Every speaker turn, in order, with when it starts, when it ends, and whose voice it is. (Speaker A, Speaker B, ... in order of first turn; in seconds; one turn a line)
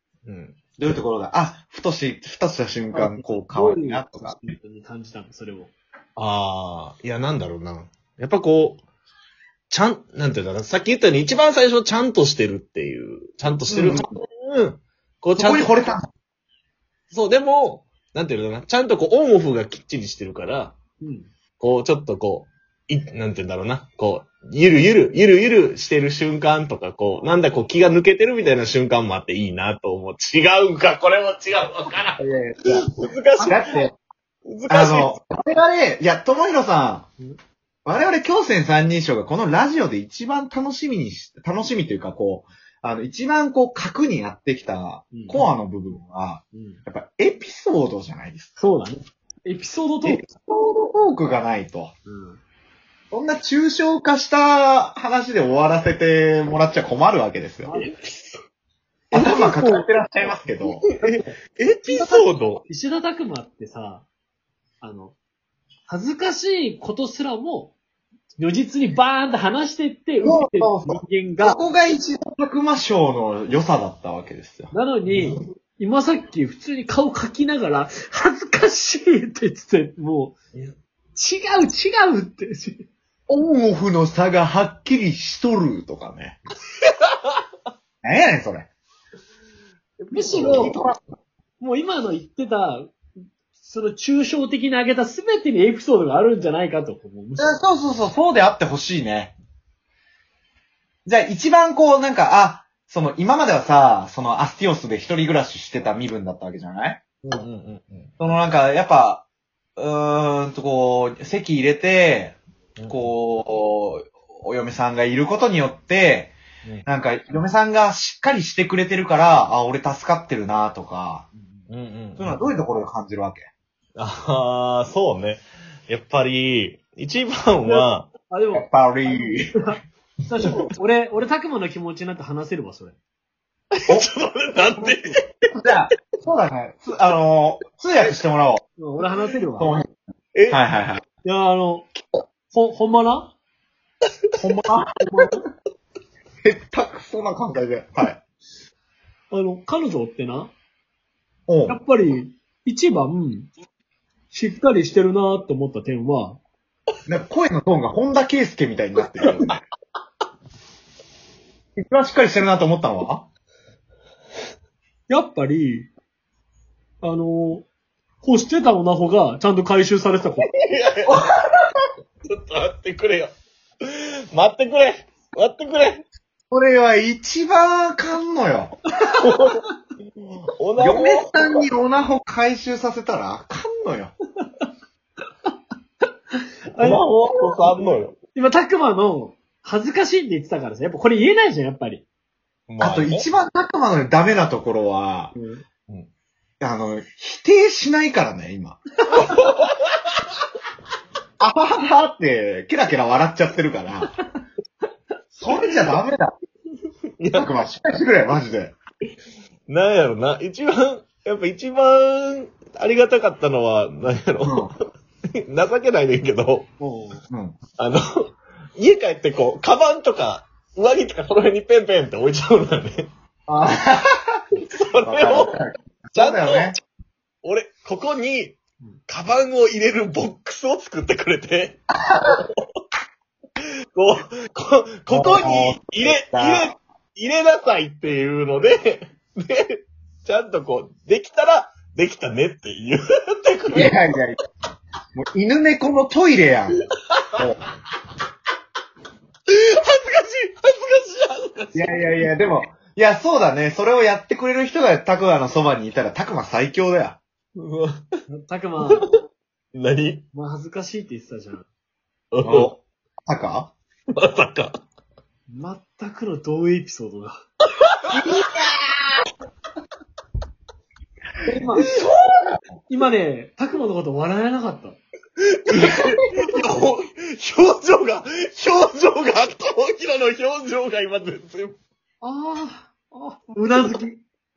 Speaker A: 0.2-0.6
Speaker B: 0.8-4.5
Speaker C: 2.9-5.7
Speaker A: 6.2-8.8
Speaker A: 9.7-15.7
Speaker B: 13.7-14.1
Speaker B: 15.4-16.1
Speaker A: 17.1-20.7
Speaker C: 21.0-21.3
Speaker A: 21.6-33.8
Speaker B: 32.2-32.9
Speaker B: 33.4-33.9
Speaker A: 34.5-35.1
Speaker B: 34.7-37.1
Speaker B: 37.8-48.5
Speaker C: 45.1-45.5
Speaker C: 46.5-46.8
Speaker C: 48.6-50.2
Speaker B: 50.0-51.9
Speaker C: 52.0-52.4
Speaker B: 53.1-57.7
Speaker C: 57.6-58.3
Speaker B: 59.1-60.9
Speaker A: 59.1-59.9
Speaker A: 60.6-62.6
Speaker C: 61.9-62.1
Speaker B: 61.9-62.2
Speaker C: 62.6-64.0
Speaker C: 64.8-65.1
Speaker C: 65.9-67.7
Speaker C: 68.4-71.6
Speaker B: 70.2-74.7
Speaker C: 74.7-80.3
Speaker A: 75.0-75.5
Speaker C: 81.1-82.8
Speaker B: 83.3-86.4
Speaker B: 88.0-88.7
Speaker A: 90.0-90.7
Speaker C: 90.1-90.8
Speaker B: 90.3-91.0
Speaker C: 91.6-92.9
Speaker C: 93.5-97.7
Speaker B: 97.4-99.3
Speaker B: 101.0-107.2
Speaker A: 107.2-108.1
Speaker B: 108.2-109.2
Speaker B: 109.8-112.4
Speaker A: 112.8-113.1
Speaker B: 112.9-116.3
Speaker B: 116.8-121.3
Speaker A: 121.7-122.4
Speaker B: 122.2-123.5
Speaker A: 124.0-128.1
Speaker C: 127.6-133.0
Speaker B: 128.5-129.7
Speaker A: 133.8-135.2
Speaker C: 134.7-135.2
Speaker B: 135.6-138.6
Speaker C: 138.8-139.8
Speaker B: 139.6-139.9
Speaker A: 140.3-140.6
Speaker B: 140.5-141.0
Speaker C: 141.2-141.9
Speaker C: 142.5-143.3
Speaker B: 144.4-145.3
Speaker C: 145.0-145.4
Speaker B: 146.4-148.2
Speaker C: 149.3-150.5
Speaker B: 151.5-151.8
Speaker C: 151.7-153.5
Speaker C: 154.3-156.4
Speaker B: 157.1-159.6
Speaker B: 161.8-163.2
Speaker C: 165.1-165.9
Speaker C: 167.0-167.7
Speaker C: 168.2-170.5
Speaker A: 170.4-171.2
Speaker B: 171.1-171.8
Speaker A: 172.2-173.3
Speaker A: 173.8-176.1
Speaker B: 176.5-178.8
Speaker A: 179.1-179.6
Speaker A: 180.3-181.3
Speaker B: 180.8-184.1
Speaker C: 186.7-187.0
Speaker A: 186.8-188.2
Speaker C: 188.3-192.0
Speaker A: 192.7-193.3
Speaker B: 192.8-195.3
Speaker C: 195.3-195.6
Speaker B: 196.6-198.8
Speaker A: 199.2-199.8
Speaker B: 201.4-204.1
Speaker B: 205.4-206.3
Speaker A: 207.2-207.5
Speaker B: 207.3-208.7
Speaker A: 209.7-214.8
Speaker B: 214.4-214.7
Speaker A: 215.5-216.7
Speaker C: 216.8-217.2
Speaker B: 217.3-217.6
Speaker A: 217.8-223.1
Speaker B: 223.5-224.4
Speaker A: 224.5-225.6
Speaker B: 225.0-226.8
Speaker A: 226.2-226.8
Speaker A: 227.4-231.8
Speaker B: 231.9-232.4
Speaker A: 232.3-232.6
Speaker A: 233.9-244.0
Speaker B: 235.1-236.7
Speaker B: 243.7-244.4
Speaker B: 245.1-246.8
Speaker A: 247.1-247.4
Speaker B: 247.3-247.6
Speaker A: 249.5-252.1
Speaker B: 251.7-257.2
Speaker A: 257.6-258.0
Speaker C: 258.3-259.2
Speaker A: 258.8-259.1
Speaker A: 259.7-260.3
Speaker C: 260.3-261.7
Speaker A: 262.3-262.7
Speaker B: 262.4-263.7
Speaker A: 264.1-264.8
Speaker C: 265.5-267.3
Speaker B: 268.1-268.9
Speaker C: 271.4-272.0
Speaker B: 271.5-272.6
Speaker C: 272.9-275.0
Speaker A: 275.6-281.8
Speaker B: 275.7-276.3
Speaker C: 282.2-284.2